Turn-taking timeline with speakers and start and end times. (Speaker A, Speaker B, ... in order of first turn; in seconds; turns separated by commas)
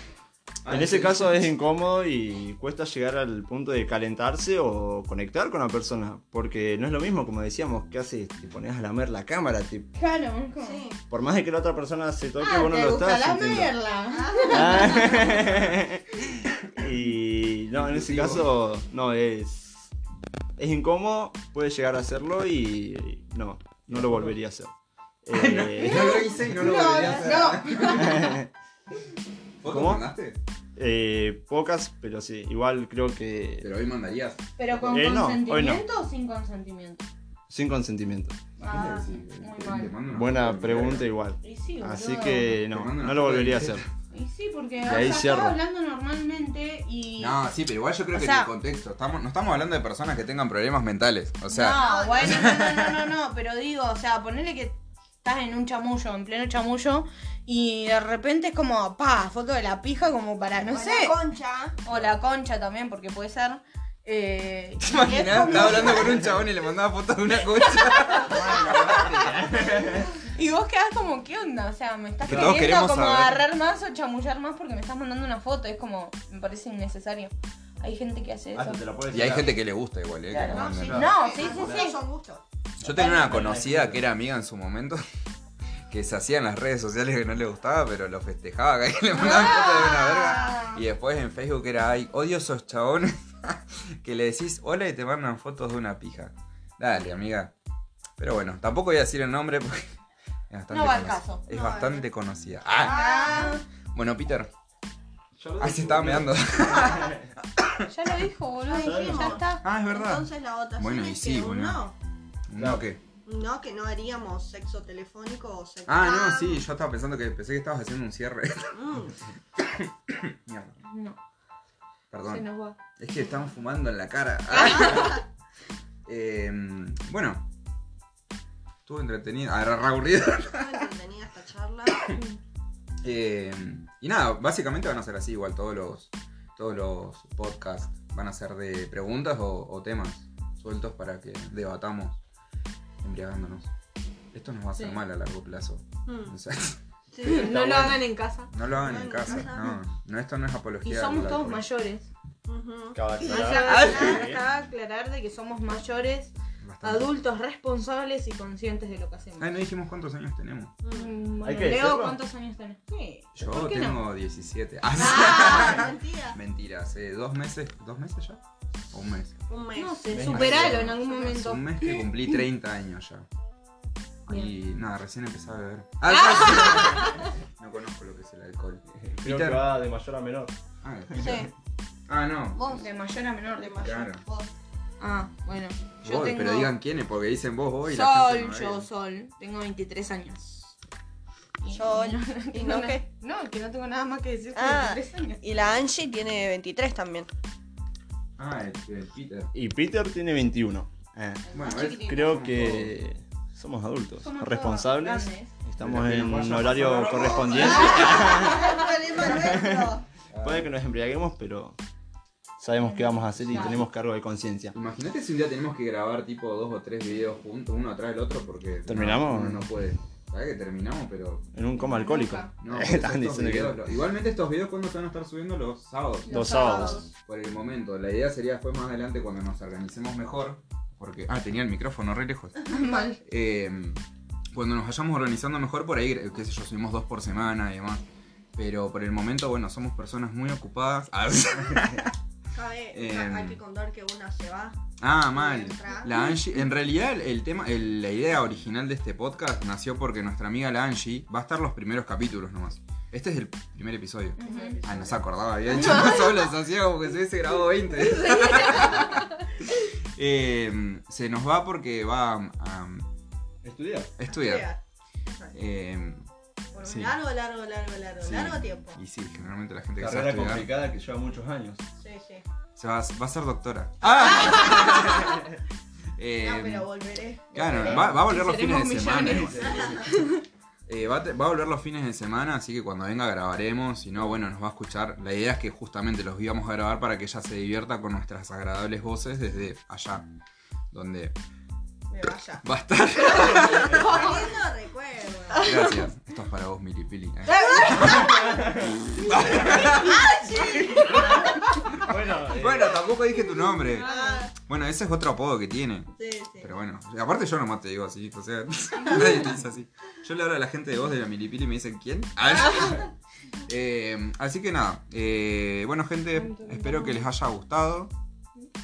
Speaker A: 0.6-1.5, Speaker B: 0.7-9.9, Speaker C: 10.0-10.8, Speaker D: 10.6-11.0, Speaker B: 11.1-13.7, Speaker C: 12.4-15.4, Speaker D: 14.1-15.2, Speaker B: 14.5-16.1, Speaker B: 16.8-19.9, Speaker A: 17.7-18.5, Speaker B: 20.6-24.7, Speaker A: 23.9-24.4, Speaker B: 25.2-26.5, Speaker A: 25.3-28.4, Speaker C: 25.9-28.4, Speaker D: 26.7-27.1, Speaker B: 27.9-28.5, Speaker A: 29.6-30.4, Speaker B: 29.7-30.1, Speaker B: 30.8-33.7, Speaker A: 33.6-34.4, Speaker C: 34.6-37.0, Speaker B: 34.7-35.9, Speaker B: 37.5-38.4, Speaker C: 38.6-39.9, Speaker A: 38.6-41.1, Speaker B: 40.1-43.8, Speaker C: 41.4-42.6, Speaker A: 42.7-43.9, Speaker C: 44.1-47.4, Speaker B: 44.8-45.6, Speaker A: 47.2-53.1, Speaker C: 48.1-48.5, Speaker C: 51.5-61.2, Speaker D: 51.7-52.6, Speaker D: 60.6-61.8, Speaker C: 61.8-66.2, Speaker A: 64.8-69.6, Speaker B: 65.6-66.2, Speaker C: 67.8-69.1, Speaker B: 68.2-70.2, Speaker C: 69.7-78.8, Speaker A: 72.2-73.4, Speaker B: 72.3-72.6, Speaker B: 78.5-79.6, Speaker A: 79.1-81.0, Speaker C: 80.3-82.0, Speaker D: 80.4-82.4, Speaker B: 80.9-81.8, Speaker A: 82.8-85.1, Speaker B: 82.9-84.0, Speaker A: 85.9-97.5, Speaker C: 89.3-90.6, Speaker D: 90.4-90.7, Speaker A: 98.2-100.0, Speaker A: 100.5-103.4, Speaker C: 100.7-101.4, Speaker D: 101.5-102.0, Speaker D: 102.8-103.6, Speaker C: 102.8-103.6, Speaker A: 103.9-104.5, Speaker B: 105.4-107.2, Speaker A: 105.6-107.9, Speaker C: 107.9-109.6, Speaker D: 108.7-112.0, Speaker B: 108.8-109.4, Speaker A: 109.6-111.8, Speaker A: 112.5-113.0, Speaker B: 112.5-112.8, Speaker D: 113.2-116.6, Speaker A: 115.9-119.0, Speaker D: 118.7-119.2, Speaker A: 119.6-120.7, Speaker C: 120.9-121.2, Speaker A: 122.1-122.5, Speaker C: 122.3-122.8, Speaker A: 123.0-125.2, Speaker C: 124.5-125.2, Speaker D: 124.7-125.1, Speaker A: 126.1-127.5, Speaker A: 128.9-130.8, Speaker D: 130.5-132.2, Speaker C: 132.1-132.4, Speaker A: 133.0-142.2, Speaker A: 143.0-143.7, Speaker A: 144.3-146.8, Speaker D: 146.1-146.3, Speaker D: 147.1-147.6, Speaker B: 147.2-148.0, Speaker C: 147.2-148.5, Speaker A: 148.5-151.7, Speaker D: 148.7-149.8, Speaker C: 150.8-152.1, Speaker D: 152.5-154.3, Speaker B: 152.9-154.4, Speaker C: 153.2-159.6, Speaker A: 156.6-157.1, Speaker A: 159.4-160.7, Speaker D: 160.8-161.1, Speaker C: 160.9-164.0, Speaker B: 161.4-162.2, Speaker A: 163.4-169.4, Speaker D: 165.0-166.4, Speaker C: 165.0-165.8, Speaker D: 169.5-170.1, Speaker C: 169.8-172.1, Speaker B: 170.1-170.8, Speaker A: 170.3-173.3, Speaker A: 174.3-179.7, Speaker C: 176.1-177.3, Speaker B: 179.0-180.6, Speaker A: 180.8-181.5, Speaker B: 181.1-181.4, Speaker D: 181.2-181.5, Speaker A: 182.1-182.8, Speaker D: 182.6-182.9, Speaker C: 182.7-184.0, Speaker D: 183.6-184.5, Speaker A: 183.8-184.2, Speaker C: 185.0-186.7, Speaker A: 186.0-188.9, Speaker C: 187.9-190.7, Speaker C: 191.6-195.4, Speaker D: 191.7-193.1, Speaker D: 194.5-197.3, Speaker A: 198.4-199.5, Speaker B: 199.5-209.9, Speaker C: 201.5-202.3, Speaker D: 201.5-201.9, Speaker A: 201.5-202.9, Speaker C: 204.2-205.5, Speaker A: 205.8-208.3, Speaker D: 207.5-210.1, Speaker C: 208.3-208.8, Speaker A: 210.3-210.7, Speaker B: 210.4-211.8, Speaker B: 212.6-214.8, Speaker C: 212.8-213.8, Speaker A: 213.4-213.9, Speaker A: 214.7-221.5, Speaker B: 218.9-219.7, Speaker B: 221.5-223.9, Speaker C: 221.8-222.5, Speaker A: 222.6-226.3, Speaker C: 226.3-227.1, Speaker B: 226.3-227.1, Speaker D: 226.5-227.1, Speaker A: 227.2-232.7, Speaker C: 232.7-233.2, Speaker A: 233.2-234.0, Speaker A: 234.5-238.0, Speaker A: 238.6-242.1, Speaker D: 242.5-244.8, Speaker A: 242.9-243.6, Speaker A: 245.0-263.1, Speaker D: 245.3-246.2, Speaker C: 254.4-254.8, Speaker D: 254.4-255.3, Speaker C: 255.7-256.5, Speaker C: 257.9-259.4, Speaker B: 263.6-264.1, Speaker A: 264.2-264.7, Speaker D: 264.3-265.6, Speaker A: 265.5-266.3, Speaker D: 266.7-269.0, Speaker A: 266.8-267.2, Speaker A: 268.2-270.7, Speaker B: 270.0-271.8, Speaker D: 272.0-272.4, Speaker A: 272.8-275.4, Speaker D: 274.3-275.2, Speaker A: 276.2-276.9, Speaker D: 276.4-278.1, Speaker A: 277.5-279.9, Speaker B: 277.6-278.2, Speaker C: 278.2-280.4, Speaker B: 279.3-280.1, Speaker D: 279.6-280.0, Speaker A: 280.9-290.2, Speaker A: 290.9-291.4, Speaker D: 292.1-292.6, Speaker A: 292.6-294.2, Speaker D: 293.6-295.7, Speaker C: 293.9-294.5, Speaker C: 295.5-295.9, Speaker A: 295.6-313.1, Speaker C: 297.5-298.6, Speaker D: 297.5-298.2, Speaker B: 298.4-298.9, Speaker D: 299.5-301.4, Speaker C: 299.8-301.3, Speaker B: 301.1-303.1, Speaker C: 303.9-304.4, Speaker D: 304.0-304.5, Speaker D: 306.2-306.7, Speaker A: 313.7-318.1, Speaker C: 316.4-317.2